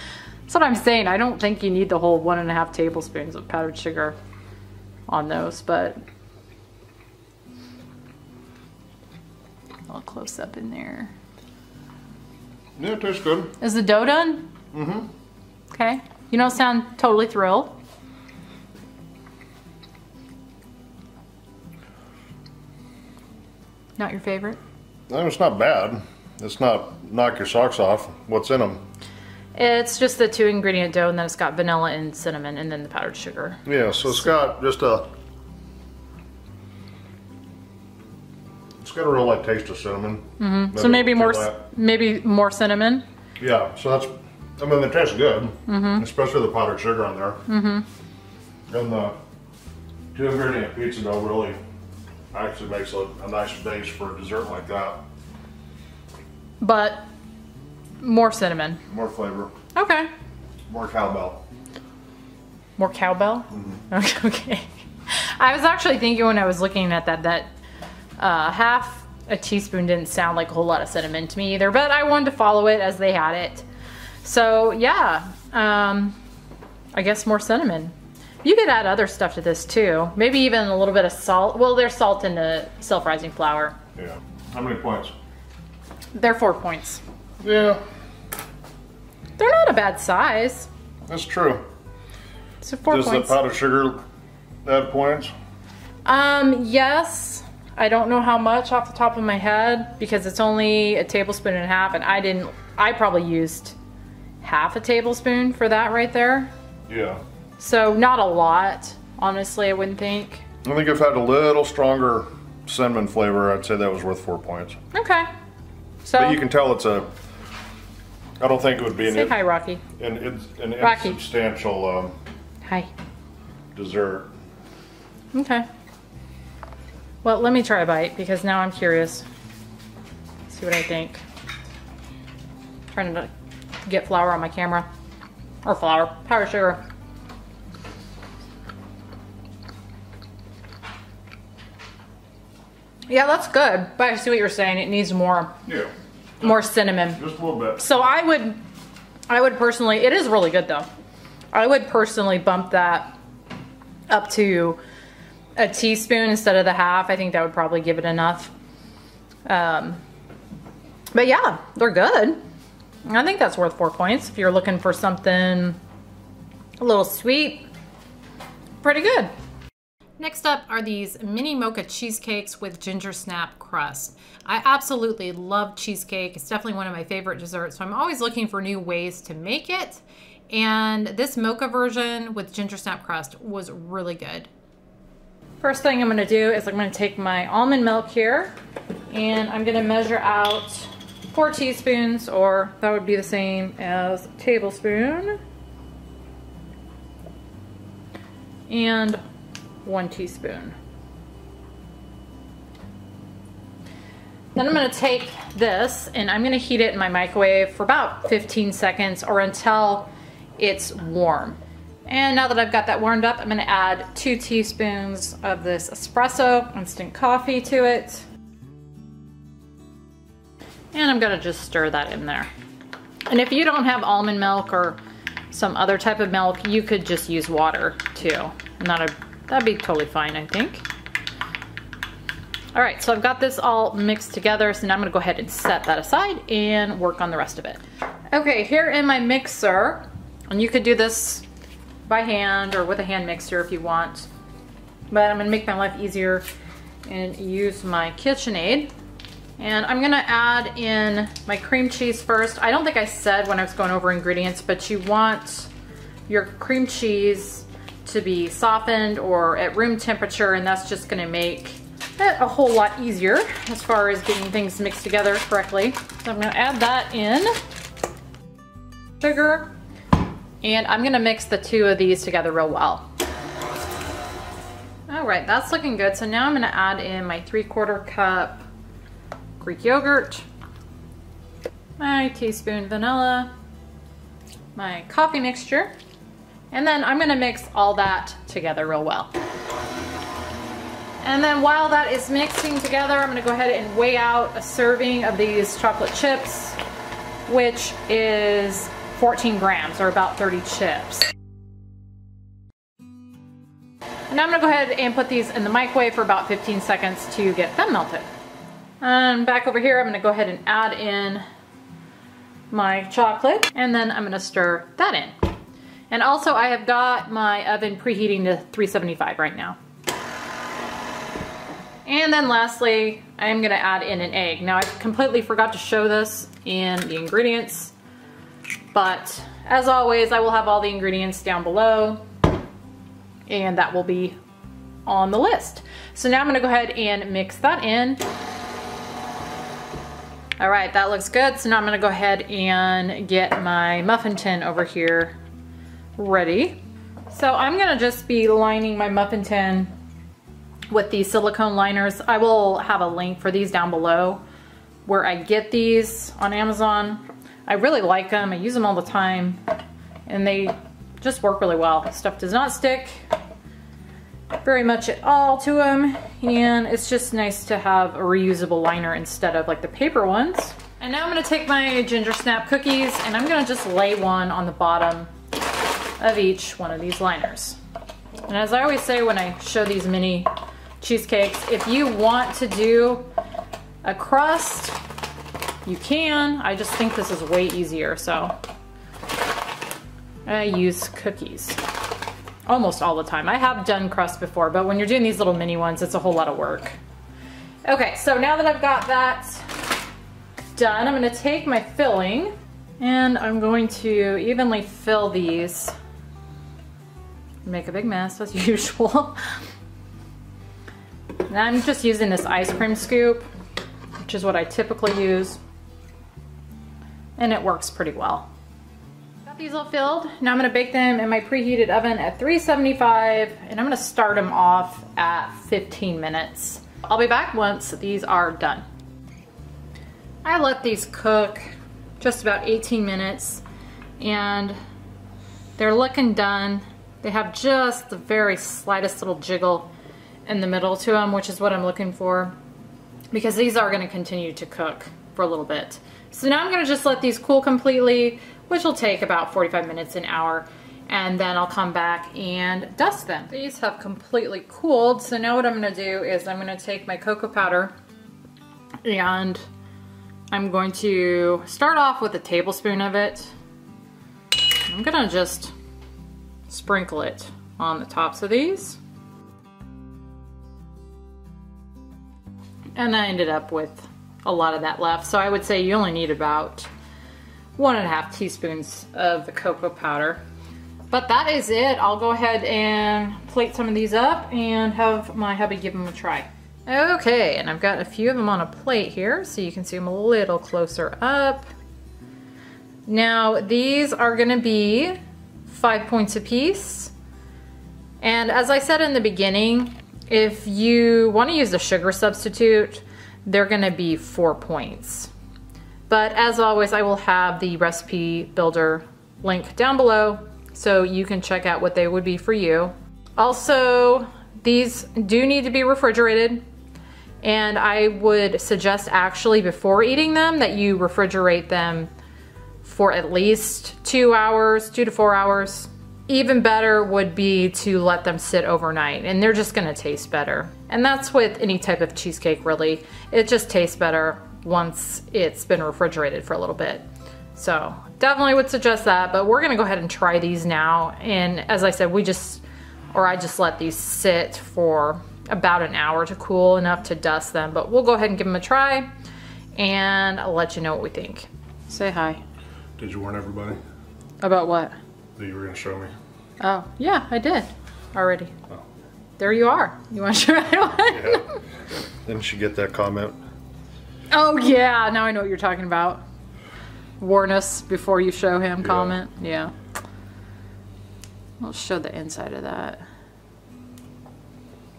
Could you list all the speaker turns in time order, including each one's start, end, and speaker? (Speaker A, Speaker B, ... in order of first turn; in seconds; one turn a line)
Speaker A: 0.5-4.2
Speaker A: 5.1-6.0
Speaker A: 9.9-11.1
Speaker B: 12.8-13.5
Speaker A: 13.6-14.5
Speaker B: 14.7-15.1
Speaker A: 15.7-17.7
Speaker A: 24.0-24.6
Speaker B: 25.1-28.8
Speaker A: 29.5-33.6
Speaker B: 33.6-35.1
Speaker B: 38.8-41.6
Speaker A: 40.4-43.0
Speaker B: 43.4-47.4
Speaker A: 45.7-46.0
Speaker A: 47.5-47.9
Speaker B: 48.7-49.1
Speaker B: 50.1-51.6
Speaker B: 52.3-55.0
Speaker A: 56.6-57.0
Speaker A: 58.0-58.8
Speaker B: 58.9-59.5
Speaker A: 59.7-60.1
Speaker B: 60.7-61.4
Speaker A: 62.8-67.5
Speaker B: 63.5-63.8
Speaker A: 68.2-73.7
Speaker A: 74.2-76.2
Speaker A: 76.9-83.8
Speaker B: 84.0-85.1
Speaker A: 86.1-87.0
Speaker B: 87.4-87.8
Speaker A: 89.4-90.7
Speaker B: 91.1-91.6
Speaker A: 92.6-93.3
Speaker B: 92.9-94.0
Speaker B: 94.6-95.3
Speaker A: 96.0-103.8
Speaker A: 104.4-106.5
Speaker B: 106.9-107.2
Speaker A: 107.6-110.4
Speaker B: 110.6-114.8
Speaker A: 114.9-115.3
Speaker A: 116.0-116.4
Speaker B: 116.1-117.1
Speaker B: 118.4-119.3
Speaker A: 119.0-119.8
Speaker B: 120.0-122.2
Speaker A: 120.8-121.2
Speaker A: 122.6-122.9
Speaker B: 123.7-124.3
Speaker A: 125.3-125.7
Speaker A: 127.2-129.2
Speaker A: 130.5-131.2
Speaker A: 132.9-133.3
Speaker A: 133.8-134.9
Speaker A: 135.6-136.8
Speaker A: 143.1-145.6
Speaker A: 146.4-147.2
Speaker B: 147.2-148.0
Speaker A: 147.8-148.6
Speaker A: 149.3-150.9
Speaker A: 151.5-153.2
Speaker A: 154.1-154.8
Speaker A: 155.6-158.5
Speaker A: 159.5-160.0
Speaker A: 161.1-162.4
Speaker A: 163.1-165.8
Speaker A: 166.8-167.7
Speaker A: 168.8-169.3
Speaker A: 170.2-184.5
Speaker A: 185.6-188.5
Speaker A: 189.1-195.4
Speaker A: 198.7-199.2
Speaker A: 199.8-200.8
Speaker A: 204.5-218.2
Speaker A: 220.9-222.5
Speaker A: 223.3-225.0
Speaker A: 225.5-230.8
Speaker A: 232.7-241.4
Speaker A: 242.1-244.3
Speaker A: 245.1-246.4
Speaker A: 247.1-248.9
Speaker A: 249.6-255.7
Speaker A: 256.3-267.5
Speaker A: 269.2-269.7
Speaker A: 270.6-273.1
Speaker A: 275.1-278.6
Speaker A: 279.6-280.4
Speaker A: 282.0-283.5
Speaker A: 284.7-285.9
Speaker A: 286.7-289.3
Speaker A: 291.2-296.8
Speaker A: 297.5-301.3
Speaker A: 304.3-308.3
Speaker A: 309.0-311.4
Speaker A: 312.7-315.4
Speaker A: 316.1-319.8
Speaker A: 322.0-327.9
Speaker A: 328.9-332.2
Speaker A: 333.5-334.4
Speaker A: 335.1-338.2
Speaker A: 340.6-345.4
Speaker A: 346.2-346.8
Speaker A: 347.3-349.9
Speaker A: 350.9-354.4
Speaker A: 355.1-359.6
Speaker A: 360.3-363.2
Speaker A: 364.6-375.3
Speaker A: 376.2-377.8
Speaker A: 378.5-383.3
Speaker A: 384.0-385.0
Speaker A: 385.9-388.6
Speaker A: 390.4-391.8
Speaker A: 392.7-397.0
Speaker A: 397.8-399.8
Speaker A: 400.7-405.9
Speaker A: 407.6-409.4
Speaker A: 411.4-413.4
Speaker A: 414.2-415.6
Speaker A: 417.4-418.5
Speaker A: 419.4-428.8
Speaker A: 430.4-433.6
Speaker A: 434.2-434.8
Speaker A: 435.8-439.9
Speaker A: 440.4-442.6
Speaker A: 443.3-457.9
Speaker A: 459.0-459.6
Speaker A: 460.5-463.5
Speaker A: 464.9-465.7
Speaker A: 466.7-469.0
Speaker A: 472.9-476.9
Speaker A: 477.8-480.4
Speaker A: 481.1-491.7
Speaker A: 493.1-497.1
Speaker A: 498.2-505.3
Speaker A: 506.1-516.6
Speaker A: 517.4-522.1
Speaker A: 522.8-549.1
Speaker A: 549.8-552.4
Speaker B: 553.0-553.8
Speaker A: 554.4-555.0
Speaker B: 555.4-556.1
Speaker A: 556.6-558.5
Speaker A: 559.4-561.6
Speaker B: 561.1-561.5
Speaker B: 562.2-563.4
Speaker A: 564.3-566.2
Speaker A: 567.2-569.7
Speaker B: 568.8-569.1
Speaker A: 571.6-573.0